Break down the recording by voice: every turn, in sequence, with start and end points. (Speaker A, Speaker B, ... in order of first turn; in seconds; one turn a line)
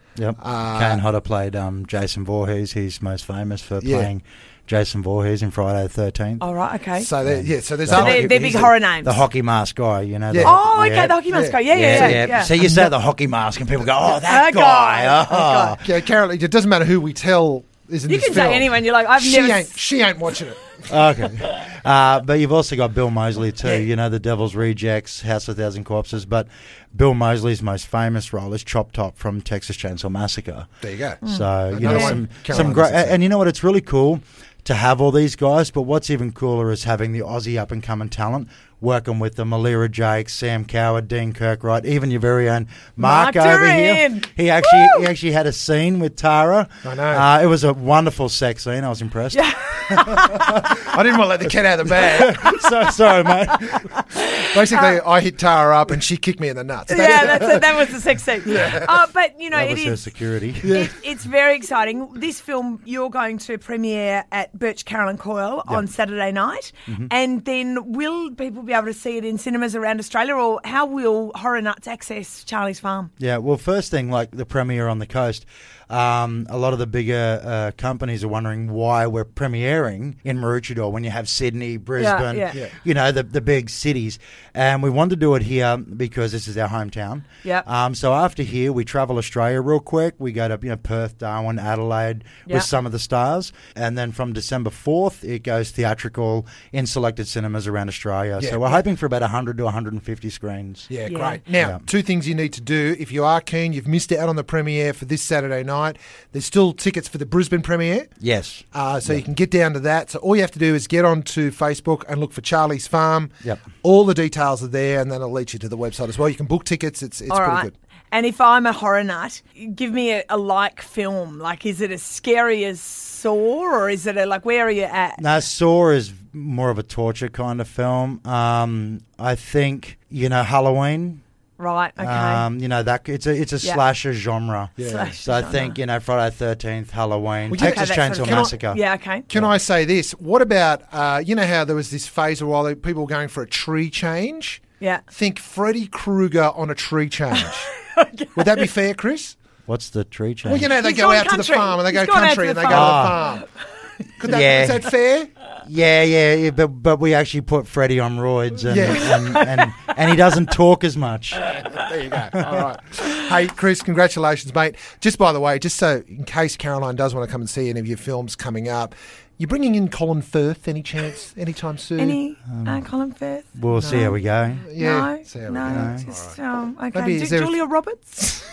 Speaker A: 0.2-6.4
Speaker B: 0.4-1.0
Speaker B: 3.8-4.1
Speaker C: 6.4-7.1
Speaker B: 7.0-8.7
Speaker A: 7.2-15.8
Speaker C: 7.9-9.2
Speaker B: 10.3-10.6
Speaker C: 10.4-12.6
Speaker B: 11.3-12.9
Speaker C: 14.2-15.8
Speaker B: 15.8-21.4
Speaker C: 18.1-19.8
Speaker A: 20.9-30.7
Speaker B: 30.8-33.2
Speaker A: 31.2-50.4
Speaker C: 31.2-32.7
Speaker C: 43.0-45.1
Speaker B: 46.8-47.3
Speaker C: 49.3-50.7
Speaker B: 50.6-52.6
Speaker A: 52.1-53.9
Speaker B: 54.2-58.9
Speaker C: 56.9-60.1
Speaker A: 59.5-60.9
Speaker B: 60.6-60.9
Speaker C: 60.7-73.1
Speaker A: 73.2-100.9
Speaker C: 82.0-82.6
Speaker B: 98.4-98.7
Speaker B: 100.9-108.2
Speaker C: 101.1-101.4
Speaker A: 101.5-101.8
Speaker A: 108.2-109.2
Speaker B: 108.7-117.7
Speaker C: 117.3-125.2
Speaker A: 125.2-131.2
Speaker C: 131.6-132.5
Speaker A: 132.0-139.5
Speaker B: 134.8-135.1
Speaker C: 134.8-135.8
Speaker B: 137.5-138.5
Speaker C: 137.5-139.3
Speaker B: 139.3-147.7
Speaker C: 147.3-148.7
Speaker B: 148.3-149.4
Speaker A: 149.7-150.7
Speaker B: 150.4-153.5
Speaker C: 150.8-153.5
Speaker A: 152.7-153.2
Speaker B: 154.2-155.3
Speaker A: 154.3-154.9
Speaker A: 155.6-161.5
Speaker B: 158.7-159.4
Speaker B: 161.4-172.2
Speaker C: 172.0-174.2
Speaker A: 172.5-172.8
Speaker A: 173.6-174.6
Speaker B: 173.7-176.4
Speaker C: 174.8-178.4
Speaker A: 175.6-176.1
Speaker B: 176.9-177.6